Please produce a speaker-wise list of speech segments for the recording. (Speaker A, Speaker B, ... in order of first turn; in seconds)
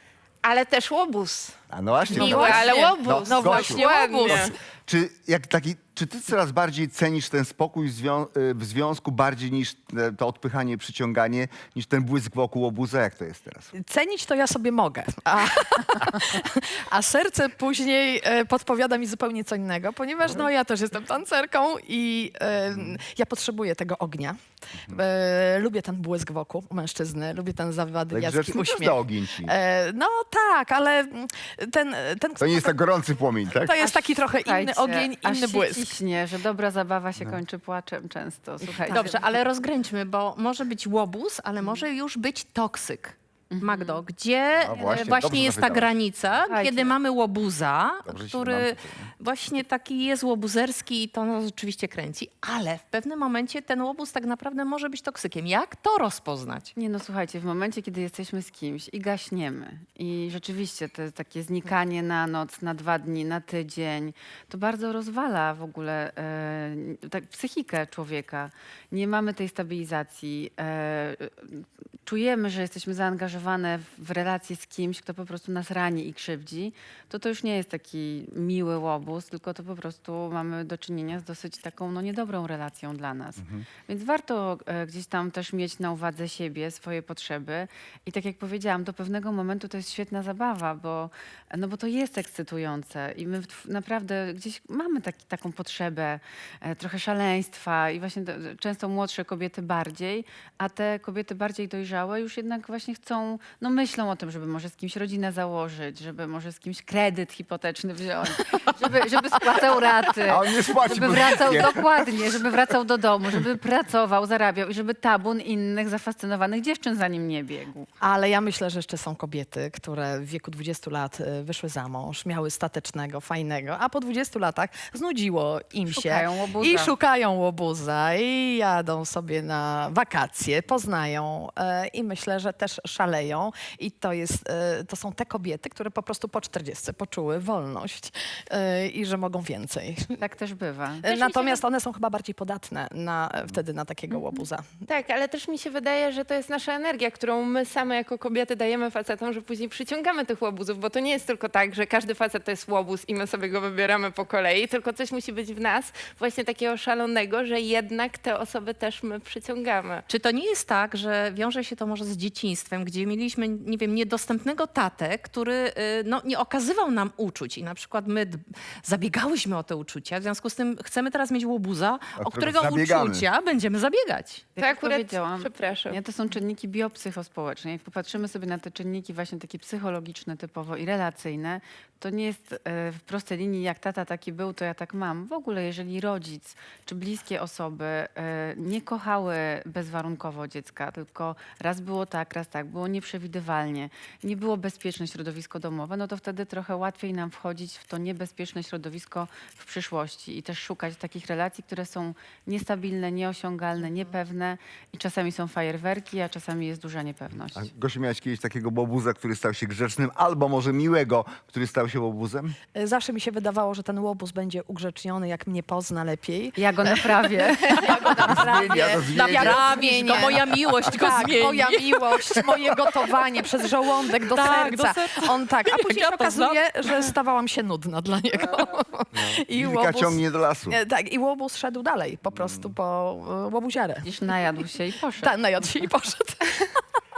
Speaker A: 0.4-1.6, 2.1-4.5, 144.9-160.0, 174.6-176.0
Speaker B: 1.7-13.7, 28.1-29.5, 32.4-33.8, 44.6-45.9, 48.1-49.1, 83.4-83.7, 110.3-111.9, 172.2-173.3, 207.5-212.6, 218.2-219.6, 229.2-230.8
Speaker C: 2.2-4.5, 13.7-32.8, 33.5-36.0, 38.7-39.1, 118.0-140.2, 141.0-144.8, 212.8-234.1, 235.2-236.8
Speaker D: 33.8-39.1, 43.5-44.0, 44.8-45.0, 46.5-46.9, 56.8-117.9, 125.9-127.0, 140.2-141.1, 174.6-207.6, 216.6-217.7, 234.1-235.3
Speaker E: 38.9-56.7, 141.1-141.6, 160.1-174.5, 217.7-218.4, 219.1-223.0, 224.2-227.0